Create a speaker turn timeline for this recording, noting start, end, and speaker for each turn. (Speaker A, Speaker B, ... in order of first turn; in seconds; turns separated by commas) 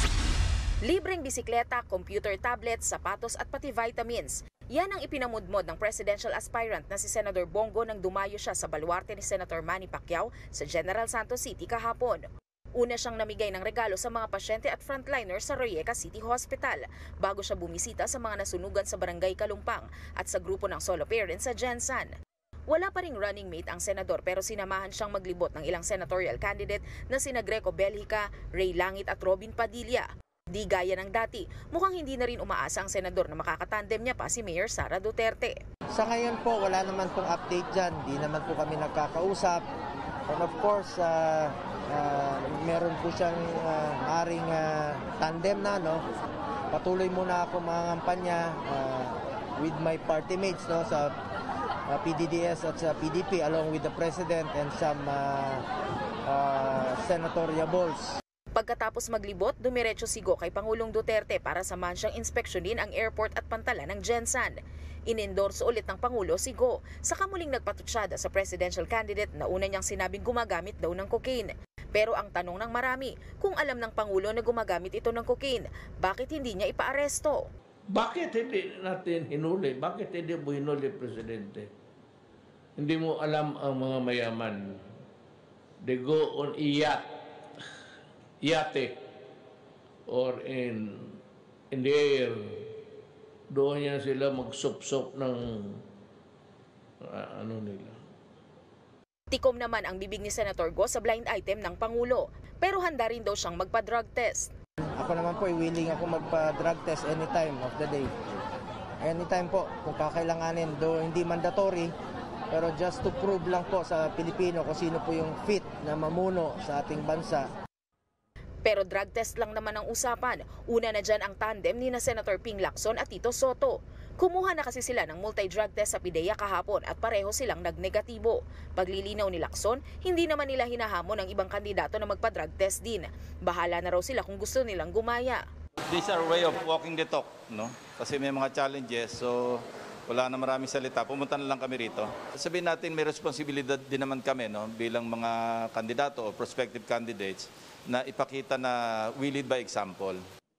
Speaker A: 0.8-12.2, Speaker A: 12.8-22.1, Speaker A: 22.7-35.6, Speaker B: 35.9-39.6, Speaker B: 40.3-46.0, Speaker B: 46.7-51.1, Speaker B: 51.9-55.6, Speaker B: 56.3-58.2, Speaker A: 58.5-64.6, Speaker A: 65.1-77.5, Speaker C: 77.9-81.7, Speaker C: 82.8-84.8, Speaker C: 85.8-87.0, Speaker C: 88.4-89.0, Speaker C: 90.1-91.2, Speaker C: 91.7-92.7, Speaker C: 93.5-95.8, Speaker C: 97.0-98.0, Speaker A: 99.3-104.5, Speaker B: 104.9-108.2, Speaker B: 109.0-111.9, Speaker B: 112.5-117.5, Speaker A: 118.7-135.4, Speaker D: 135.9-150.2